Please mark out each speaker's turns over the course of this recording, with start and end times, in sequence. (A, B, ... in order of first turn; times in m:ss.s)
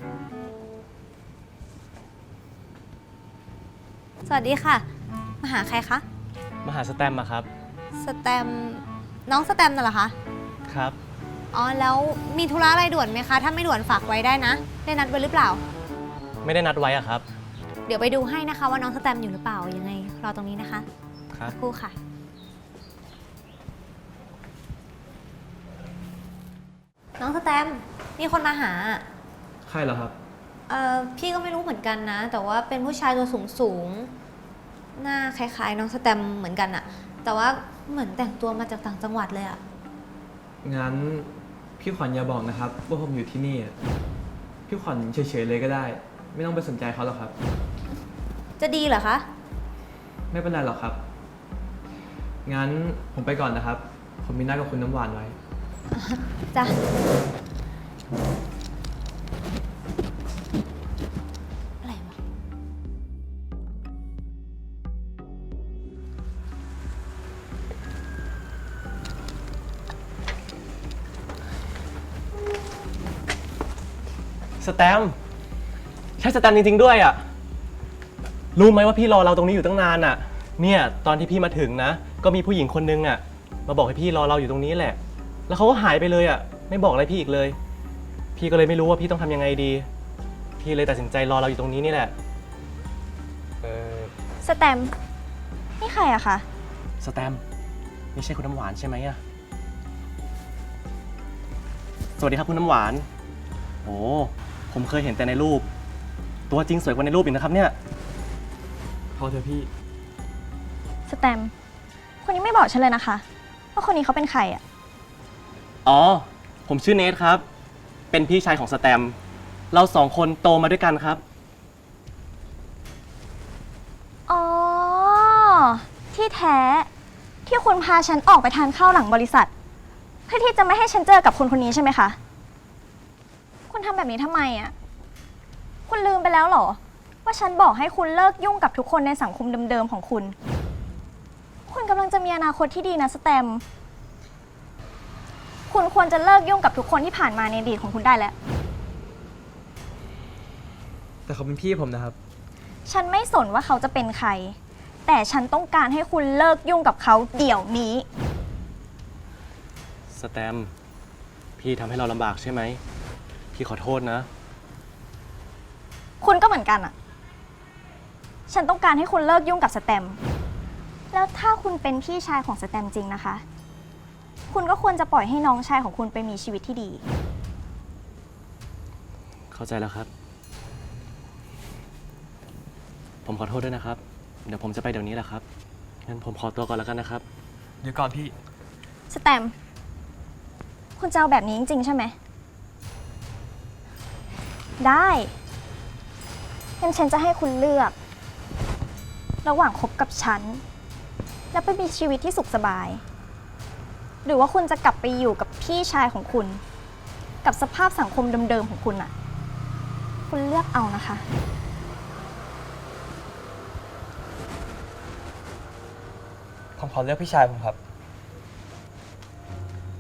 0:04.2-0:04.9 A
0:05.4-0:06.0 A
0:06.6-0:07.5 B
0:08.0-0:10.2 A
0:10.7-0:11.0 B
0:11.5-0:15.6 A
0:16.4-0:17.3 B
0:17.9-0:20.9 A
0:21.5-0:22.0 A
0:27.2-0:29.0 A
0:29.6-0:30.2 C
0:30.7-0:34.1 A
0:35.0-0:39.6 A
0:40.6-0:43.8 C
0:44.7-0:47.3 C
0:48.6-0:49.3 A
0:50.3-0:51.0 C
0:52.4-0:55.4 C
0:55.9-0:56.8 A
1:01.8-1:02.2 A
1:14.6-1:15.2 B
1:16.2-1:17.2 B
1:18.6-1:27.6 B
1:28.4-1:29.9 B
1:30.6-1:32.2 B
1:33.6-1:34.1 B
1:34.4-1:34.9 D
1:35.8-1:36.4 D
1:37.0-1:37.4 B
1:38.2-1:39.2 B
1:42.2-1:43.1 B
1:43.8-1:45.7 B
1:46.5-1:47.8 B
1:49.1-1:49.7 C
1:51.1-1:51.5 D
1:52.2-1:54.6 D
1:55.9-1:57.5 B
1:58.1-1:59.2 B
1:59.7-2:01.2 B
2:04.3-2:06.9 D
2:07.5-2:09.5 D
2:10.3-2:12.2 D
2:13.7-2:14.7 D
2:15.9-2:20.4 D
2:21.7-2:23.6 D
2:25.7-2:28.4 D
2:31.3-2:32.2 C
2:32.9-2:38.1 D
2:40.1-2:40.7 B
2:41.6-2:42.8 B
2:43.5-2:44.3 B
2:46.2-2:46.9 D
2:48.5-2:50.2 D
2:51.1-2:53.4 D
2:54.5-2:57.0 D
2:59.5-3:00.1 B
3:03.2-3:05.4 B
3:06.0-3:07.2 B
3:07.8-3:08.4 C
3:09.1-3:09.5 D
3:11.0-3:12.2 D
3:14.8-3:15.3 D
3:16.8-3:18.0 D
3:19.4-3:20.6 D
3:21.5-3:23.0 D
3:24.2-3:26.6 D
3:27.4-3:29.1 D
3:30.3-3:31.2 D
3:36.8-3:37.8 C